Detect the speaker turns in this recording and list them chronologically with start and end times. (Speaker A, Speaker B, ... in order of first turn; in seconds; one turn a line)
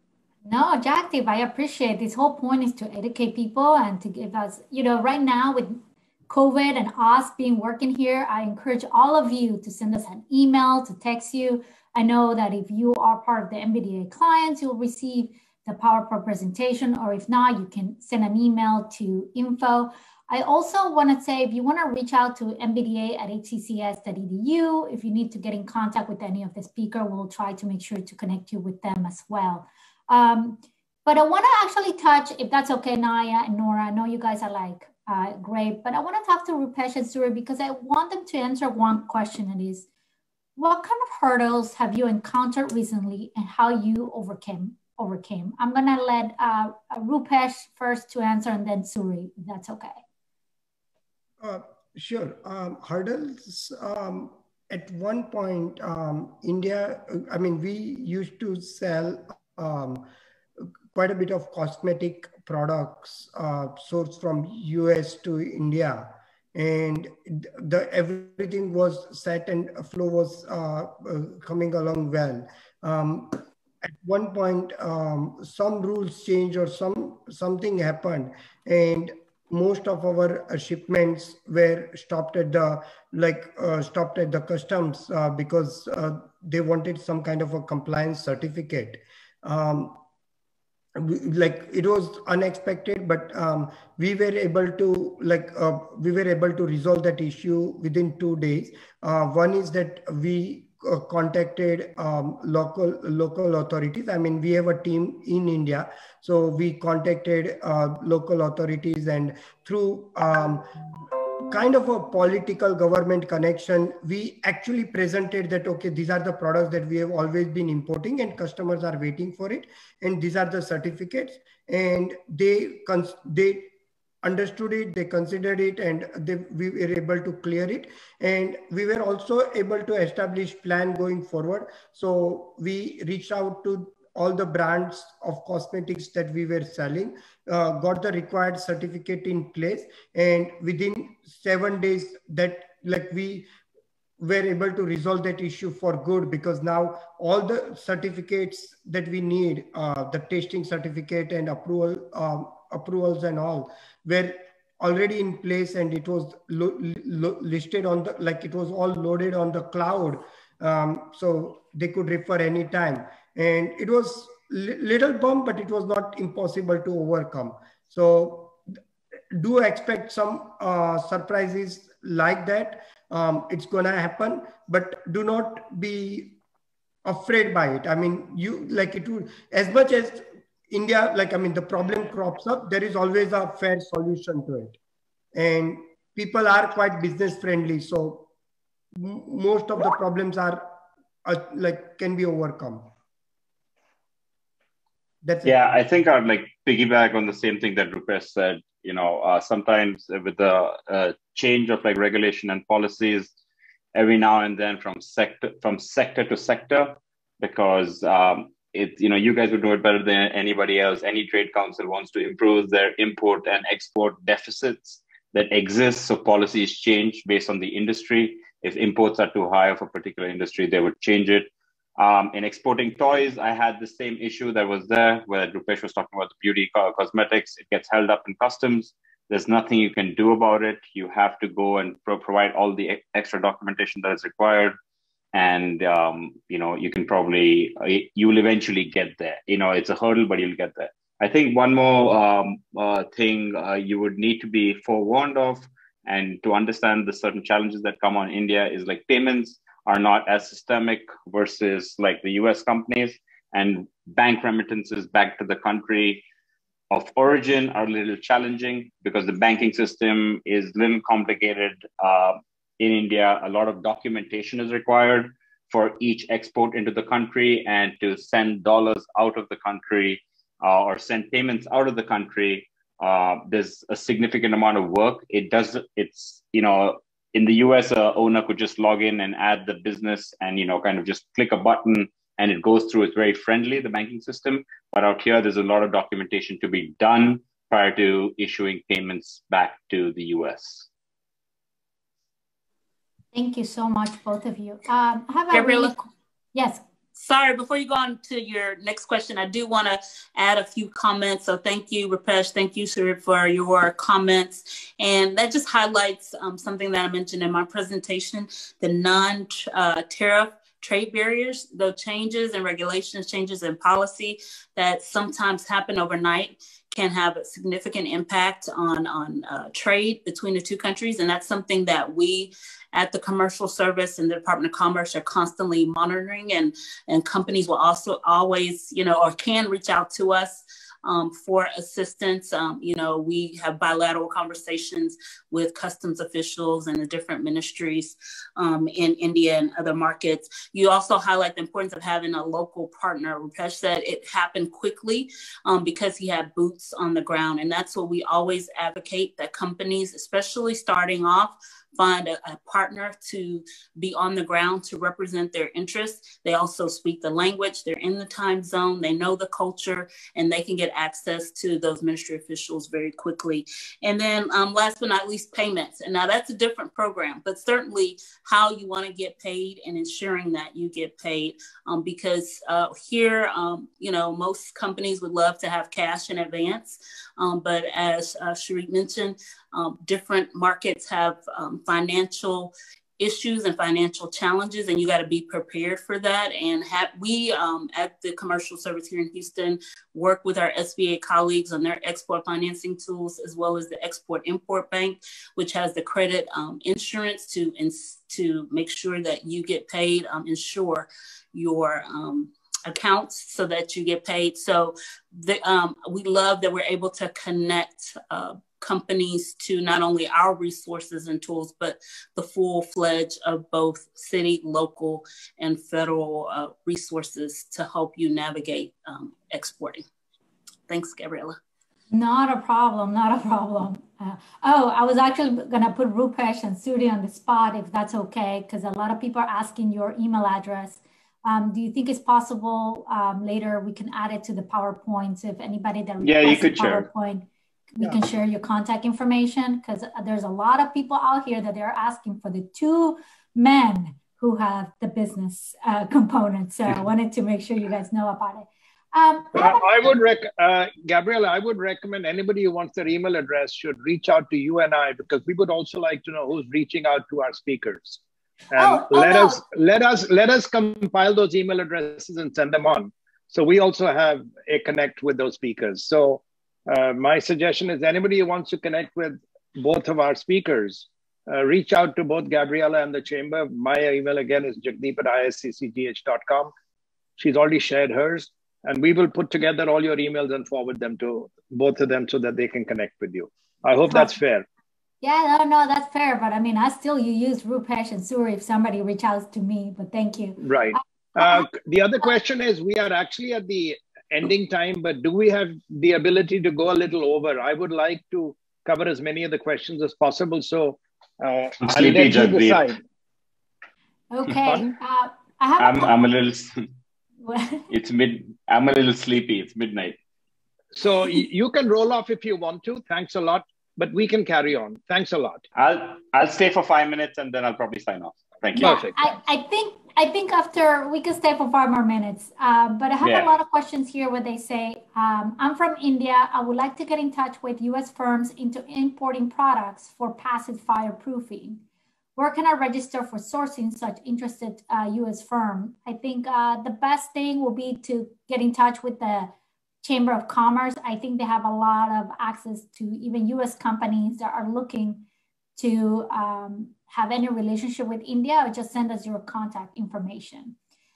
Speaker A: 0.4-39.9
Speaker A: 40.5-50.0
Speaker B: 51.4-60.1
Speaker B: 60.9-90.0
Speaker B: 91.0-110.7
Speaker B: 111.5-123.7
Speaker B: 124.2-143.5
Speaker B: 144.2-168.6
Speaker B: 169.3-176.4
Speaker B: 177.0-184.8
Speaker B: 185.3-188.3
Speaker B: 188.9-192.9
Speaker B: 195.2-195.6
Speaker C: 195.4-203.3
Speaker C: 203.9-234.8
Speaker C: 235.3-256.2
Speaker C: 256.9-290.9
Speaker A: 293.3-296.8
Speaker D: 295.5-295.9
Speaker D: 297.1-420.0
Speaker D: 420.9-421.6
Speaker A: 422.1-450.1
Speaker C: 436.2-437.1
Speaker E: 449.5-458.2
Speaker E: 458.7-476.7
Speaker A: 458.8-459.6
Speaker E: 477.4-484.6
Speaker A: 484.1-484.4
Speaker A: 485.2-491.7
Speaker E: 490.6-503.0
Speaker C: 501.8-502.9
Speaker A: 504.3-506.2
Speaker E: 504.6-504.9
Speaker C: 505.8-506.7
Speaker A: 507.4-507.8
Speaker C: 507.9-510.2
Speaker E: 510.9-515.6
Speaker C: 515.7-519.1
Speaker E: 518.8-519.2
Speaker A: 518.8-531.8
Speaker C: 523.2-523.5
Speaker A: 532.4-545.2
Speaker A: 545.8-550.8